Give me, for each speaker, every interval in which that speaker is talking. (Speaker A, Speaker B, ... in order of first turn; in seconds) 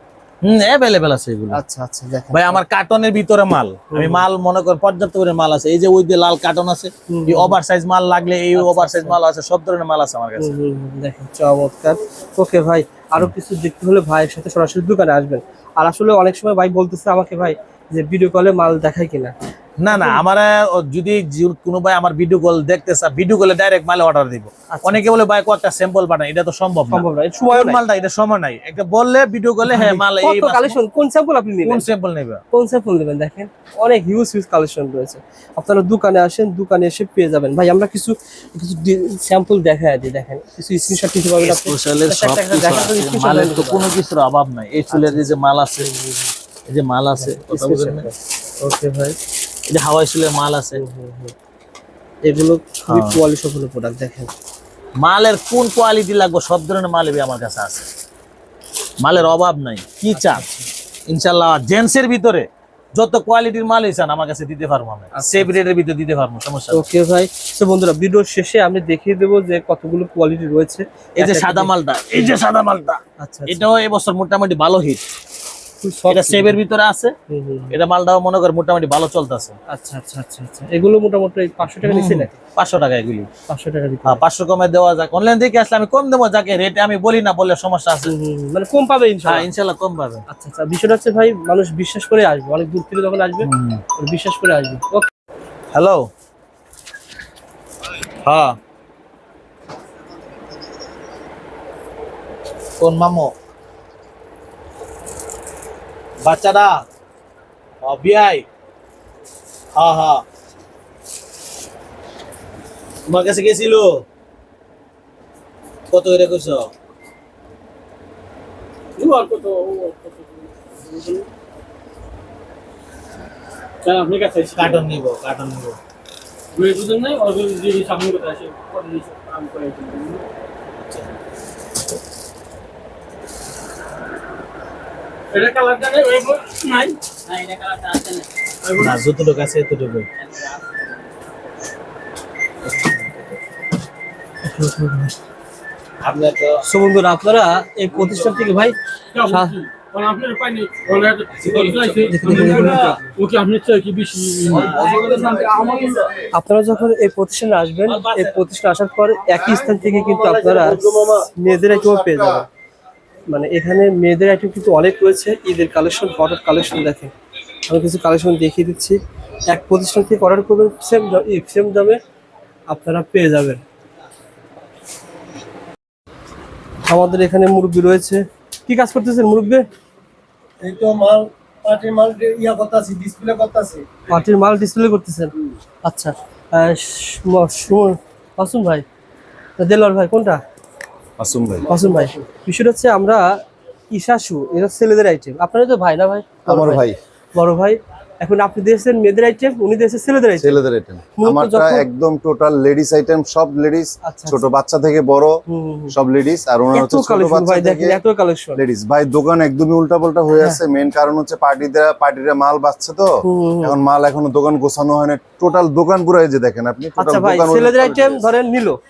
Speaker A: 0.4-1.6, 2.3-10.5, 19.8-30.8, 31.6-32.4, 41.4-45.9, 46.7-48.1, 49.7-50.8, 52.9-53.2, 55.0-57.9, 59.0-60.4, 61.1-66.8, 71.2-75.0, 76.1-77.1, 77.7-79.5, 81.8-83.3, 84.0-88.1, 89.2-90.2, 93.5-93.8, 95.7-96.1, 98.2-98.6, 102.8-103.3, 106.2-106.8, 107.8-108.5, 109.8-110.2, 113.1-113.9, 115.9-116.7, 124.5-125.8, 130.8-131.1, 138.6-140.1, 146.0-146.6, 151.3-153.0, 154.5-155.8, 157.9-158.5
Speaker B: 1.5-2.6, 3.9-4.2, 7.1-7.6, 8.5-9.2, 10.4-19.4, 19.9-20.2, 24.7-25.1, 26.9-27.8, 29.6-31.9, 32.5-43.9, 44.9-46.3, 47.2-49.2, 50.8-51.4, 52.2-54.3, 60.2-60.7, 65.2-65.5, 66.7-72.3, 73.2-73.6, 75.8-76.6, 77.3-77.8, 79.7-82.4, 83.5-84.2, 88.0-89.5, 90.3-95.1, 144.4-145.2, 146.7-149.6, 152.1-153.1, 156.3-162.5, 163.3-167.1, 167.7-172.0, 172.7-173.6, 176.8-179.6, 184.0-185.3, 185.8-188.8, 189.6-190.4, 191.7-193.3, 193.9-200.6, 201.2-201.9, 204.0-204.5, 205.5-205.9, 206.7-208.6, 213.2-213.8, 217.0-218.8
Speaker C: 119.0-121.3, 123.8-124.8, 126.5-130.2, 135.3-138.2, 149.1-156.1
Speaker D: 154.8-155.1, 159.4-162.4, 180.6-183.9, 191.2-191.7, 196.5-197.0, 200.4-205.4, 205.9-208.0, 208.6-218.3